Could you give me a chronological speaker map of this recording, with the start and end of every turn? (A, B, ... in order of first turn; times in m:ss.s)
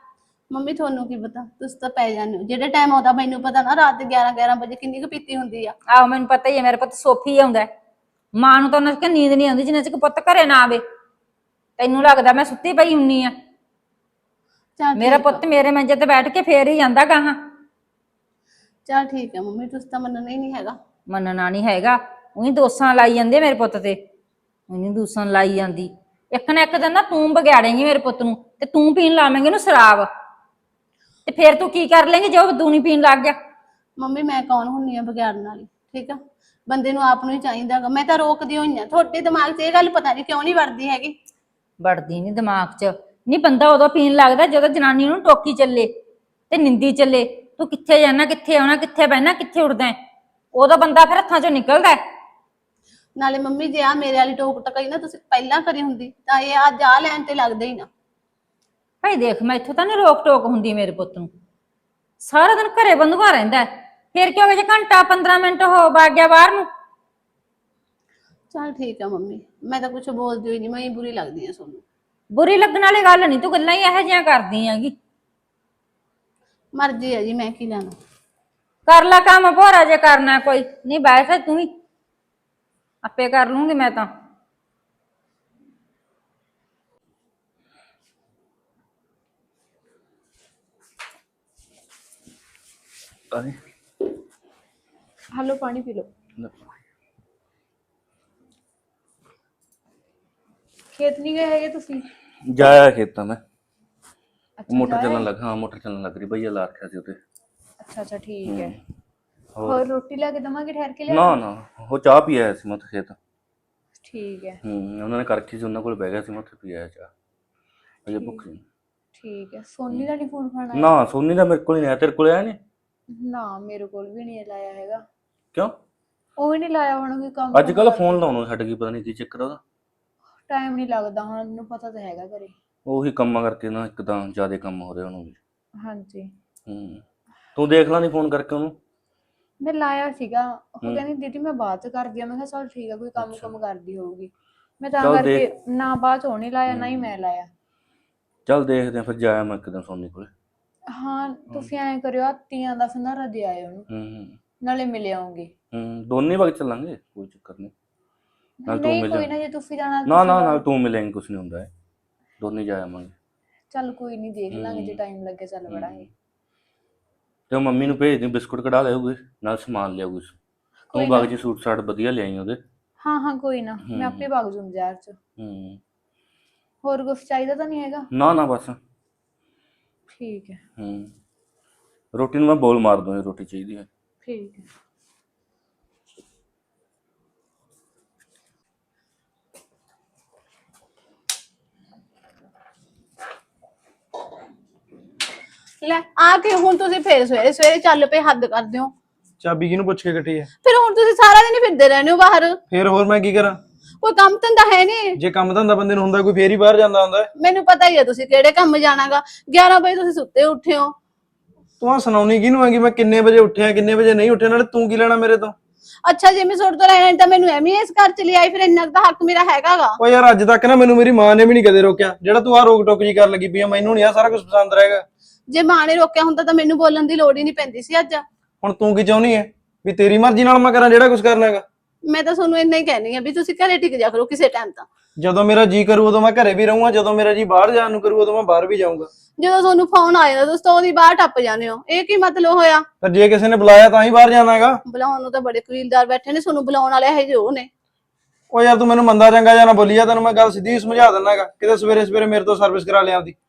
0:00.5-0:05.7 A
0:05.9-0:07.7 B
0:08.4-0:10.8 B
0:11.8-0:13.3 B
0:14.8-0:15.4 A
0:15.0-0:17.4 B
0:18.9-0:20.8 A
0:21.1-0:24.0 B
0:24.7-0:30.1 B
0:31.3-0:33.4 B
0:34.0-0:41.2 A
0:41.8-0:45.9 B
0:46.5-0:50.0 B
0:50.5-0:52.0 B
0:53.2-0:57.9 A
0:59.0-1:01.3 B
1:02.2-1:06.7 B
1:08.5-1:11.8 A
1:12.3-1:15.0 B
1:16.8-1:18.0 A
1:18.9-1:21.7 B
1:23.0-1:24.1 B
1:33.3-1:33.6 C
1:35.3-1:36.1 D
1:40.9-1:42.1 D
1:42.5-1:43.4 C
1:44.6-1:45.3 D
1:44.7-1:47.2 C
1:47.8-1:48.8 D
1:48.4-1:48.8 C
1:49.6-1:49.8 C
1:49.6-1:51.4 D
1:51.1-1:53.2 C
1:54.0-1:54.6 D
1:54.6-1:57.1 C
1:58.1-1:58.6 C
1:58.1-1:58.4 D
1:59.2-2:01.0 D
2:00.7-2:02.6 C
2:03.1-2:05.0 D
2:06.4-2:08.3 D
2:07.5-2:09.6 C
2:10.5-2:12.5 D
2:12.9-2:15.4 C
2:15.8-2:16.3 D
2:16.7-2:17.0 C
2:17.6-2:18.8 C
2:19.6-2:27.5 D
2:23.2-2:23.6 C
2:25.0-2:25.4 C
2:26.7-2:27.1 C
2:28.5-2:30.3 C
2:30.9-2:33.9 D
2:33.9-2:34.4 C
2:34.6-2:35.5 D
2:35.7-2:37.7 C
2:38.6-2:40.6 D
2:38.7-2:39.3 C
2:40.1-2:41.7 C
2:42.4-2:43.1 C
2:43.7-2:46.1 D
2:44.5-2:45.0 C
2:45.7-2:46.1 C
2:47.5-2:50.3 C
2:50.9-2:51.3 D
2:50.9-2:52.6 C
2:53.0-2:55.2 D
2:53.8-2:54.3 C
2:55.4-2:55.8 C
2:56.8-2:58.1 D
2:58.1-2:58.8 C
3:00.2-3:00.6 D
3:00.8-3:01.1 C
3:02.1-3:03.9 C
3:04.2-3:04.6 D
3:15.8-3:18.9 A
3:19.4-3:20.5 E
3:20.6-3:22.6 A
3:22.7-3:23.6 E
3:24.0-3:25.2 A
3:25.2-3:27.3 E
3:27.4-3:30.9 A
3:31.8-3:35.6 E
3:36.0-3:40.0 A
3:40.0-3:45.0 E
3:45.5-3:48.2 A
3:48.6-3:51.6 E
3:52.1-3:54.9 A
3:55.2-3:59.1 E
3:59.4-4:02.9 A
4:03.0-4:04.8 E
4:04.9-4:07.7 A
4:08.5-4:13.4 E